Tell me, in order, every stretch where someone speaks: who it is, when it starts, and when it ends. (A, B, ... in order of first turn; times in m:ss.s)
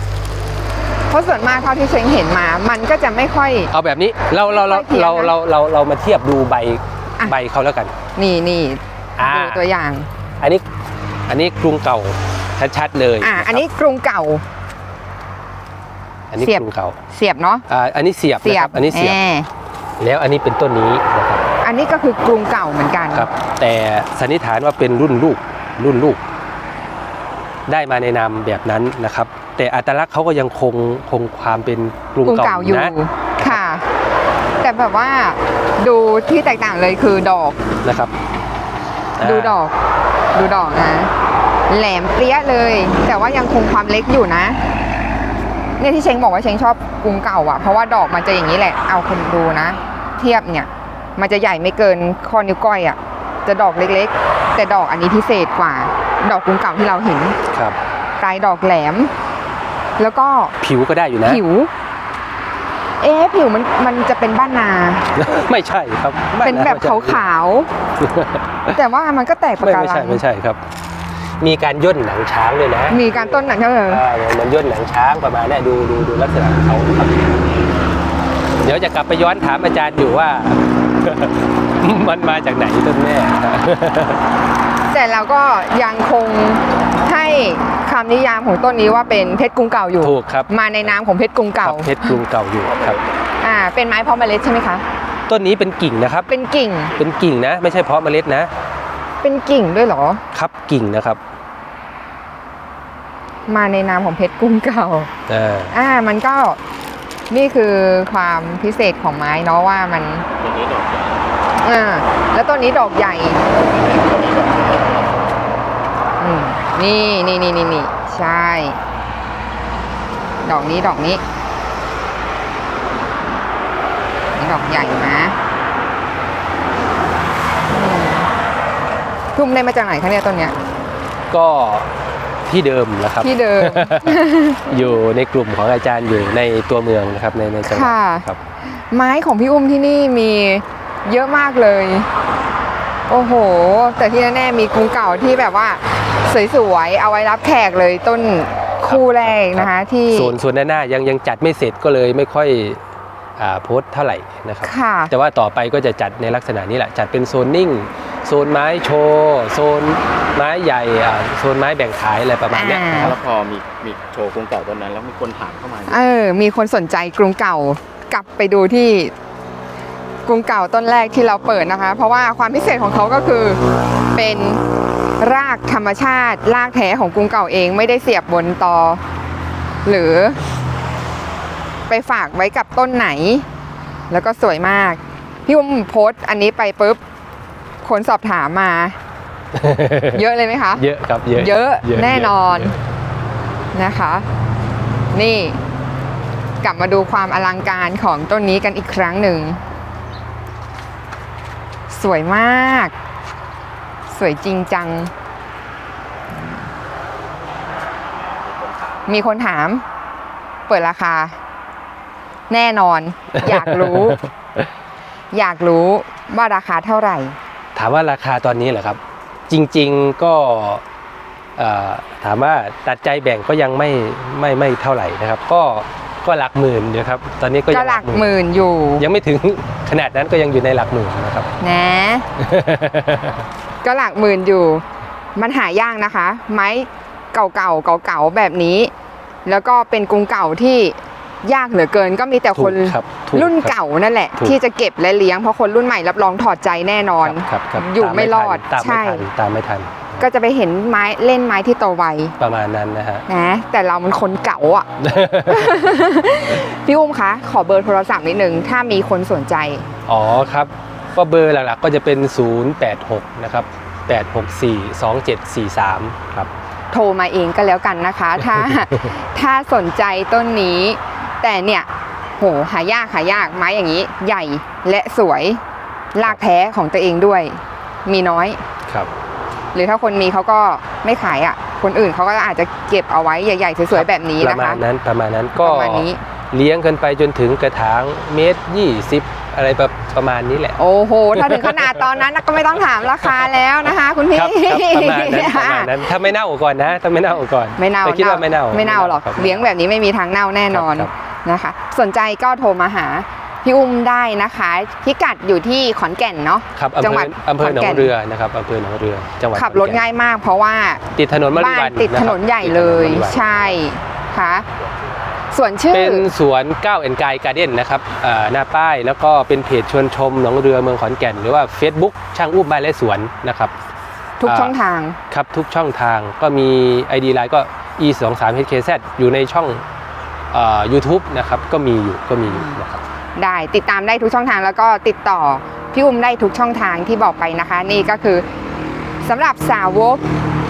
0:01.1-0:03.7 A
0:03.7-0:07.9 B
0:04.5-0:05.3 A
0:08.2-0:10.1 A
0:09.2-0:09.6 B
0:11.3-0:13.6 B
0:13.2-0:14.4 A
0:16.3-0:17.0 B
0:16.4-0:17.6 A
0:17.7-0:19.2 B
0:18.4-0:19.5 A
0:20.0-0:21.4 B
0:21.6-0:23.3 A
0:23.1-0:26.2 B
0:27.7-0:33.6 B
0:32.2-0:33.9 A
0:34.6-0:37.6 A
0:37.8-0:38.1 B
0:39.2-0:39.6 B
0:39.2-0:39.7 A
0:40.3-0:41.1 A
0:41.7-0:44.6 A
0:45.8-0:57.4 A
0:57.5-0:57.8 B
0:58.2-0:59.1 A
1:00.0-1:00.6 A
1:00.6-1:01.4 B
1:01.2-1:01.7 A
1:03.0-1:05.1 A
1:05.2-1:07.2 B
1:06.4-1:07.7 A
1:08.0-1:08.7 B
1:08.7-1:10.2 A
1:09.6-1:10.6 B
1:11.4-1:17.4 B
1:12.9-1:14.0 A
1:18.6-1:24.2 B
1:24.9-1:32.1 A
1:30.0-1:30.9 B
1:31.6-1:33.0 B
1:33.4-1:34.8 A
1:35.3-1:36.3 B
1:36.3-1:36.9 A
1:37.0-1:38.5 B
1:39.2-1:40.2 A
1:40.3-1:41.2 B
1:43.5-1:45.1 A
1:45.3-1:45.7 B
1:45.7-1:46.6 A
1:47.3-1:50.3 A
1:50.4-1:51.3 C
1:51.6-1:53.4 A
1:53.6-1:55.1 C
1:56.2-1:58.8 A
2:00.4-2:01.2 A
2:04.4-2:05.4 A
2:07.7-2:08.3 A
2:09.4-2:10.6 A
2:11.3-2:11.9 B
2:12.5-2:18.4 B
2:13.2-2:14.7 A
2:17.6-2:22.1 A
2:23.1-2:30.4 A
2:28.8-2:32.8 B
2:33.4-2:43.1 B
2:34.6-2:35.1 A
2:42.5-2:43.2 A
2:43.0-2:46.0 C
2:45.9-2:49.1 A
2:50.3-2:53.6 A
2:54.1-2:54.6 A
2:55.2-2:59.0 A
2:59.8-3:00.4 A
3:01.9-3:03.5 A
3:04.1-3:07.0 A
3:07.8-3:09.0 A
3:09.5-3:10.2 B
3:10.1-3:12.8 A
3:10.8-3:12.7 B
3:13.7-3:14.3 A
3:15.1-3:15.6 A
3:16.6-3:19.6 A
3:21.9-3:22.9 A
3:24.1-3:25.1 A
3:26.3-3:26.6 A
3:29.1-3:29.8 A
3:30.7-3:31.4 A
3:32.5-3:34.2 A
3:33.4-3:34.7 B
3:35.3-3:37.4 A
3:37.8-3:40.8 B
3:41.6-3:48.3 B
3:47.7-3:49.0 A
3:49.0-3:51.5 B
3:51.6-3:52.3 A
3:52.4-3:53.4 B
3:53.8-3:54.8 A
3:55.4-3:58.9 A
3:59.5-4:09.2 A
4:02.6-4:03.8 B
4:07.2-4:10.2 B
4:10.2-4:12.4 A
4:12.4-4:13.2 B
4:13.3-4:14.9 A
4:15.0-4:15.8 B
4:15.4-4:19.9 A
4:20.1-4:26.5 B
4:26.9-4:31.9 A
4:32.4-4:35.6 A
4:36.1-4:38.6 A
4:39.7-4:44.8 A
4:43.9-4:50.8 B
4:45.6-4:46.2 A
4:50.8-4:56.1 A
4:51.3-4:52.1 B
4:53.2-4:53.5 B
4:54.3-4:59.7 B
4:57.8-5:08.1 A
5:00.7-5:01.1 B
5:06.8-5:10.0 B
5:09.5-5:14.7 A
5:11.2-5:13.8 B
5:15.5-5:16.3 A
5:15.9-5:23.7 B
5:24.4-5:25.2 A
5:24.5-5:24.7 B
5:25.3-5:29.8 B
5:30.5-5:33.0 B
5:32.5-5:32.8 A
5:33.4-5:38.5 A
5:39.2-5:40.2 A